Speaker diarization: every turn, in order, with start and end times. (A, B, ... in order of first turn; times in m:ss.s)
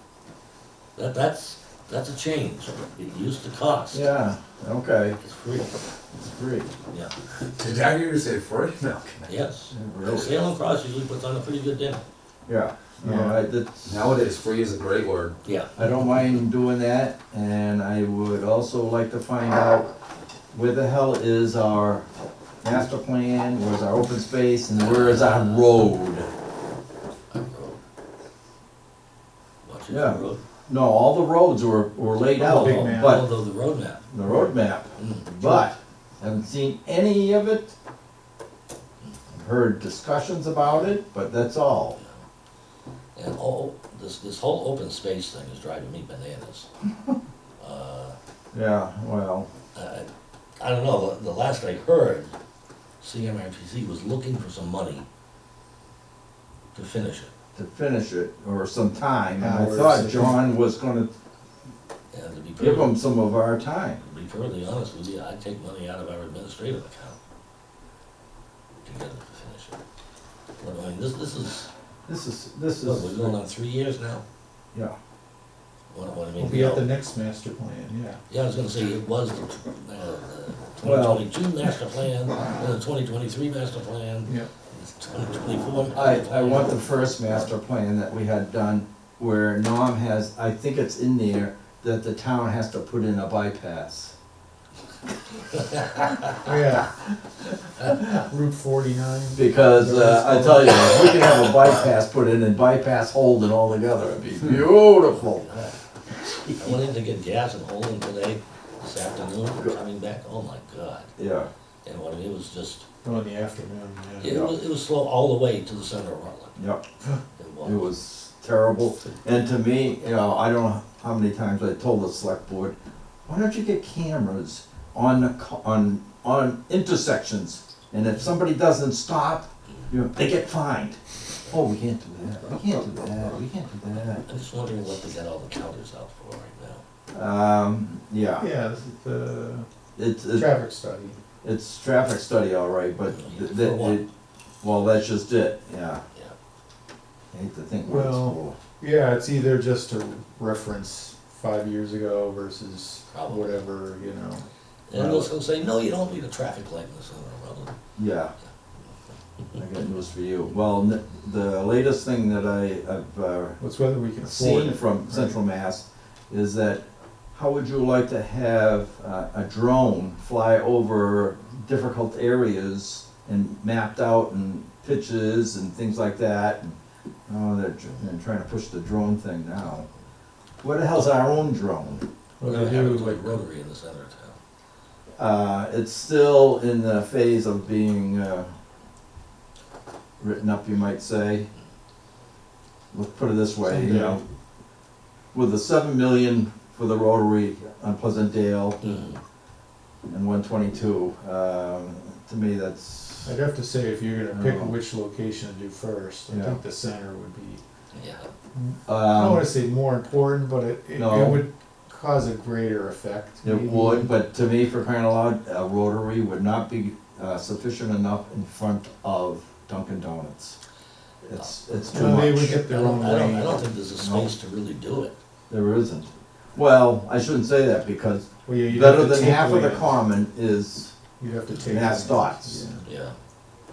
0:01.0-0:04.1 A
0:03.9-0:05.2 B
0:05.2-0:05.8 A
0:06.2-0:06.7 B
0:07.4-0:09.2 C
0:09.3-0:12.0 A
0:09.7-0:10.4 B
0:12.5-0:14.0 B
0:13.0-0:13.4 D
0:13.8-0:15.4 C
0:15.4-0:15.9 A
0:15.8-0:19.9 B
0:20.5-0:22.1 B
0:22.6-0:26.3 B
0:24.7-0:25.7 A
0:27.3-0:27.8 A
0:29.6-0:30.4 A
0:29.9-0:33.3 B
0:32.4-0:33.3 D
0:32.5-0:34.0 A
0:34.1-0:37.7 B
0:34.2-0:34.5 D
0:35.0-0:35.4 A
0:39.3-0:42.0 B
0:43.1-0:46.7 A
0:47.6-0:48.2 A
0:48.5-0:49.5 B
0:49.7-0:52.3 A
0:53.0-0:55.0 A
0:56.7-0:57.3 A
0:57.5-1:01.1 B
0:59.4-1:00.4 D
1:02.1-1:02.9 A
1:02.6-1:04.0 B
1:04.0-1:07.2 A
1:08.8-1:09.8 A
1:10.6-1:11.7 A
1:12.1-1:13.4 B
1:12.8-1:14.2 A
1:15.9-1:16.9 A
1:16.4-1:18.2 D
1:18.3-1:27.4 A
1:20.8-1:21.3 B
1:25.9-1:34.1 B
1:35.7-1:36.5 A
1:36.4-1:40.8 D
1:39.3-1:45.4 B
1:45.1-1:45.8 A
1:46.4-1:51.1 A
1:51.2-1:51.5 B
1:51.8-1:52.8 A
1:53.0-1:54.3 D
1:54.2-1:56.6 A
1:54.2-1:54.5 B
1:56.6-1:56.8 B
1:57.4-1:57.9 A
1:57.6-2:14.2 B
2:12.4-2:13.4 A
2:14.2-2:16.8 A
2:17.1-2:18.4 B
2:18.4-2:19.7 D
2:20.0-2:20.5 B
2:20.3-2:21.2 D
2:21.4-2:24.1 B
2:23.1-2:24.0 A
2:24.6-2:26.0 B
2:27.3-2:28.6 B
2:27.8-2:34.4 D
2:33.1-2:33.6 A
2:34.9-2:37.8 A
2:34.9-2:35.3 B
2:38.0-2:38.3 B
2:39.5-2:43.6 B
2:43.6-2:45.3 D
2:44.2-2:59.8 B
3:00.6-3:02.0 B
3:02.4-3:03.4 D
3:02.4-3:04.4 A
3:05.2-3:08.5 B
3:10.2-3:11.5 B
3:12.9-3:14.2 B
3:13.6-3:14.2 D
3:15.3-3:18.8 B
3:18.8-3:19.2 A
3:20.1-3:23.4 B
3:23.2-3:27.6 D
3:24.3-3:24.7 B
3:26.3-3:26.6 B
3:27.9-3:28.3 A
3:28.5-3:34.1 D
3:28.9-3:29.5 B
3:31.0-3:31.4 B
3:33.4-3:40.6 B
3:41.2-3:42.6 B
3:41.9-3:43.6 D
3:42.3-3:45.1 A
3:44.0-3:44.3 B
3:45.5-3:50.9 B
3:48.4-3:50.0 D
3:51.2-3:52.8 D
3:51.6-3:52.7 B
3:52.8-3:53.1 A